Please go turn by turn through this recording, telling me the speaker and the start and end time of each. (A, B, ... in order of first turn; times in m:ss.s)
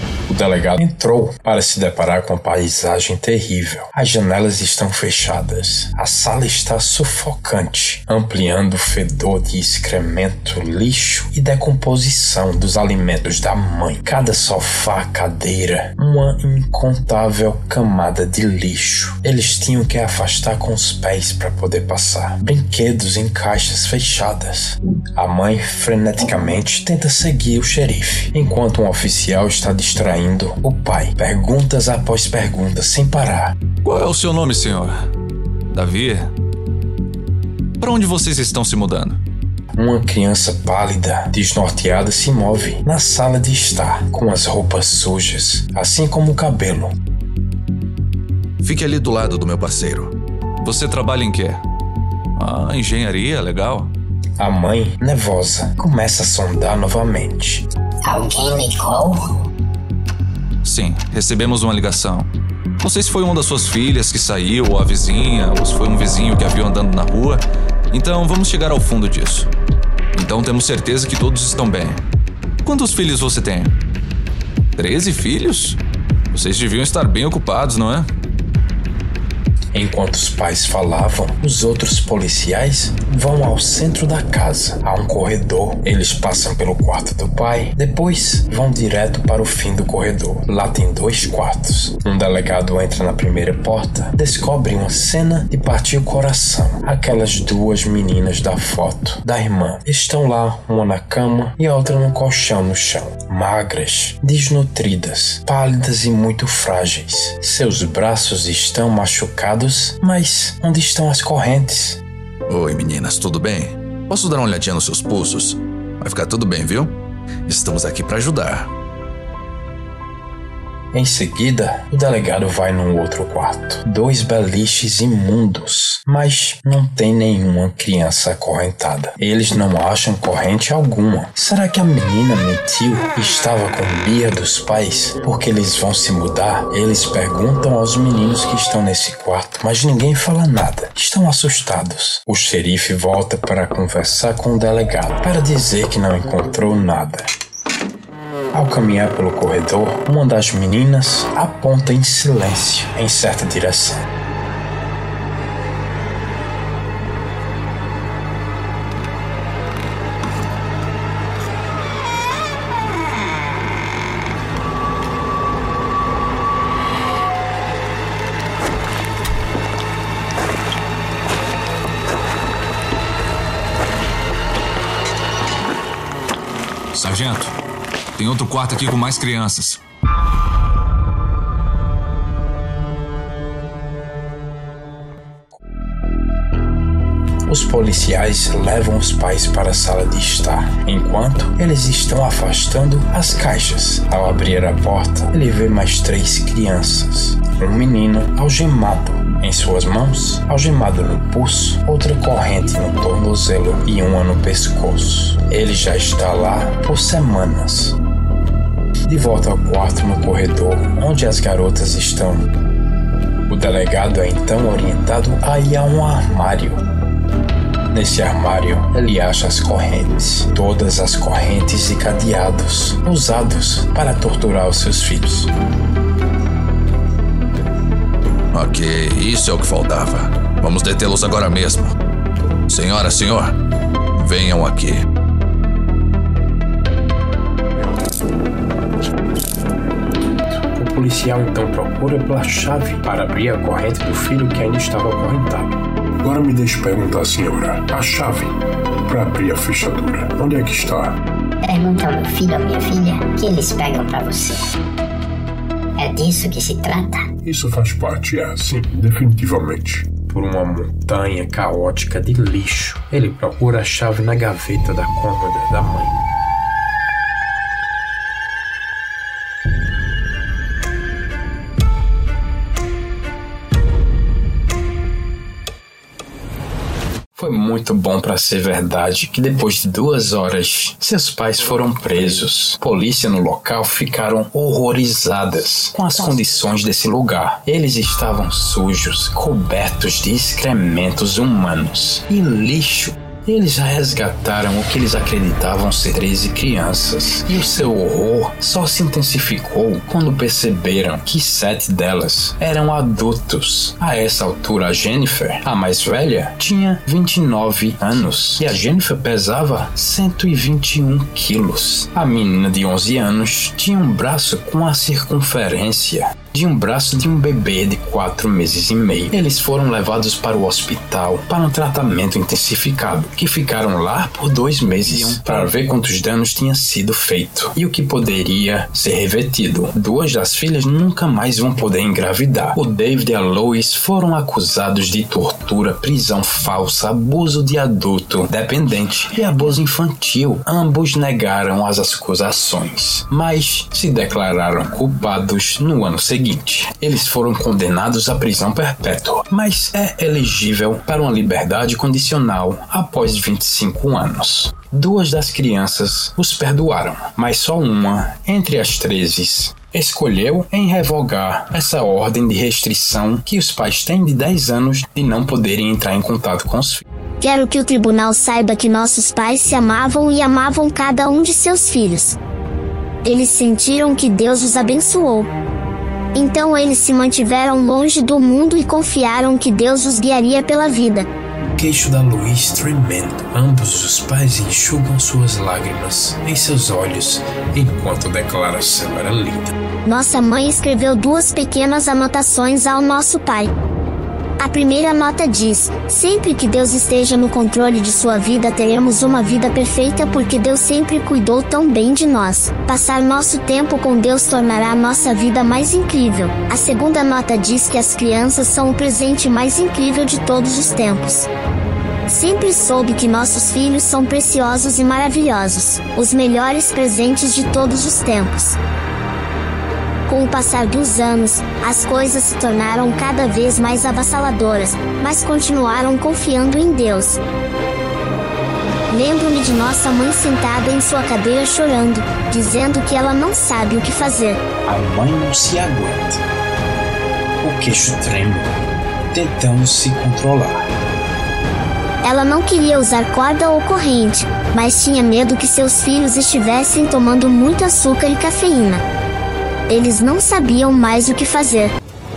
0:00.3-0:33.6 A
0:33.8-0:34.9 B
0:35.7-0:36.3 B
0:37.8-0:39.2 B
0:39.8-0:46.9 A
0:48.6-0:51.6 B
0:52.4-0:53.9 B
0:54.4-0:57.7 A
0:58.0-0:59.2 C
1:00.6-1:02.3 B
1:02.8-1:09.5 B
1:10.1-1:12.0 B
1:12.6-1:13.7 B
1:14.8-1:15.8 B
1:16.3-1:18.1 B
1:19.7-1:52.0 A
1:52.5-1:57.0 B
1:57.5-1:58.7 B
2:00.9-2:27.3 A
2:28.5-2:34.0 A
2:56.9-2:57.6 B
2:58.2-2:59.8 B
3:07.5-3:28.0 A
3:29.1-3:32.5 A
3:33.5-3:36.8 A
3:37.9-3:45.5 A
3:48.5-3:52.0 B
3:52.7-3:53.6 B
3:54.2-3:55.0 B
4:00.5-4:05.7 A
4:06.2-4:11.2 D
4:11.6-4:14.7 C
4:16.0-4:17.3 C
4:17.4-4:20.1 D
4:20.3-4:26.2 A
4:37.4-6:07.0 A
6:07.4-6:12.4 E
6:13.2-6:15.5 E
6:16.3-6:21.3 E
6:21.8-6:29.7 A
6:30.0-6:33.7 E
6:34.6-6:51.5 E
6:52.3-6:58.8 E
7:00.3-7:07.4 E
7:09.1-7:14.6 E
7:14.8-7:16.4 A
7:17.6-7:18.8 A
7:19.3-7:20.9 A
7:22.2-7:29.0 E
7:29.9-7:31.9 E